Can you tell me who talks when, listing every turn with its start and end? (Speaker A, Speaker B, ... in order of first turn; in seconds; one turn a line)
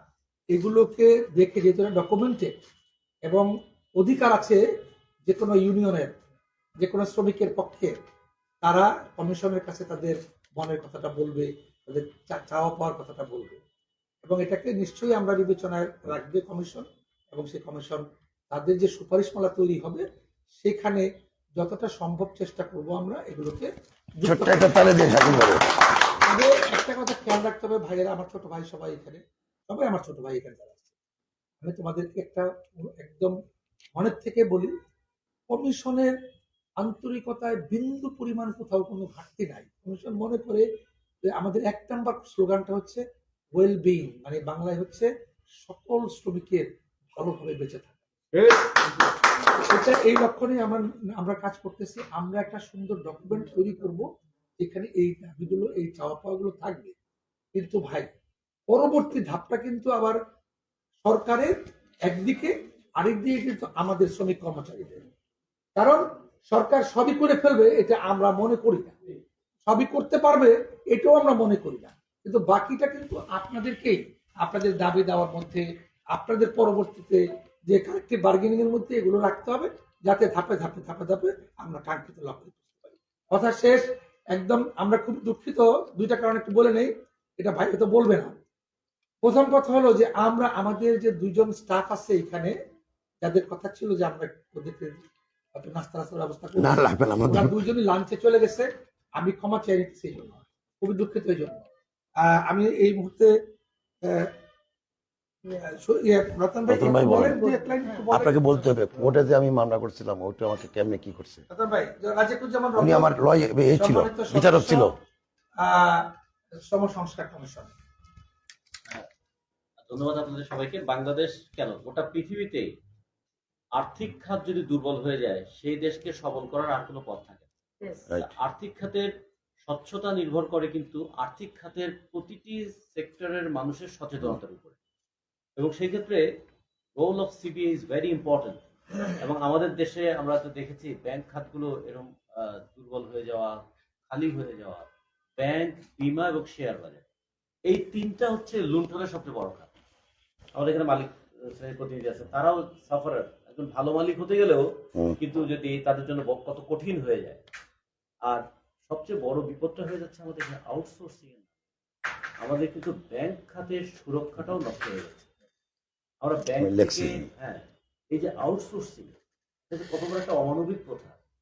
Speaker A: 0.5-2.5
Speaker A: 3.2-4.6
Speaker A: 5.2-6.1
Speaker A: 6.8-7.9
Speaker A: 8.6-13.6
Speaker A: 14.2-20.0
Speaker A: 20.6-21.0
Speaker A: 21.6-24.7
Speaker B: 24.2-25.7
Speaker A: 26.2-30.9
Speaker A: 31.6-33.3
Speaker A: 33.9-34.7
Speaker A: 35.5-36.1
Speaker A: 36.8-40.6
Speaker A: 41.2-43.0
Speaker A: 43.5-45.1
Speaker A: 45.6-47.9
Speaker A: 49.6-54.0
Speaker A: 54.6-56.9
Speaker A: 57.5-58.1
Speaker A: 58.7-60.2
Speaker A: 61.0-61.5
Speaker A: 62.0-65.0
Speaker A: 65.8-69.0
Speaker A: 69.7-88.3
Speaker A: 89.2-92.5
Speaker A: 93.2-101.6
Speaker B: 96.6-97.5
Speaker A: 102.2-103.3
Speaker A: 105.5-108.3
Speaker B: 106.7-107.4
Speaker B: 108.1-111.4
Speaker A: 111.5-113.2
Speaker B: 112.8-114.9
Speaker A: 113.8-114.9
Speaker A: 115.6-116.0
Speaker A: 116.7-117.7
Speaker C: 119.8-122.7
Speaker C: 123.8-127.5
Speaker C: 128.0-129.1
Speaker C: 129.7-134.8
Speaker C: 135.6-136.2
Speaker C: 137.0-147.0
Speaker C: 147.7-149.7
Speaker C: 150.5-154.6
Speaker C: 155.2-157.4
Speaker C: 158.3-161.4
Speaker C: 162.4-165.3
Speaker C: 166.2-169.1
Speaker B: 166.6-167.3
Speaker C: 169.7-171.2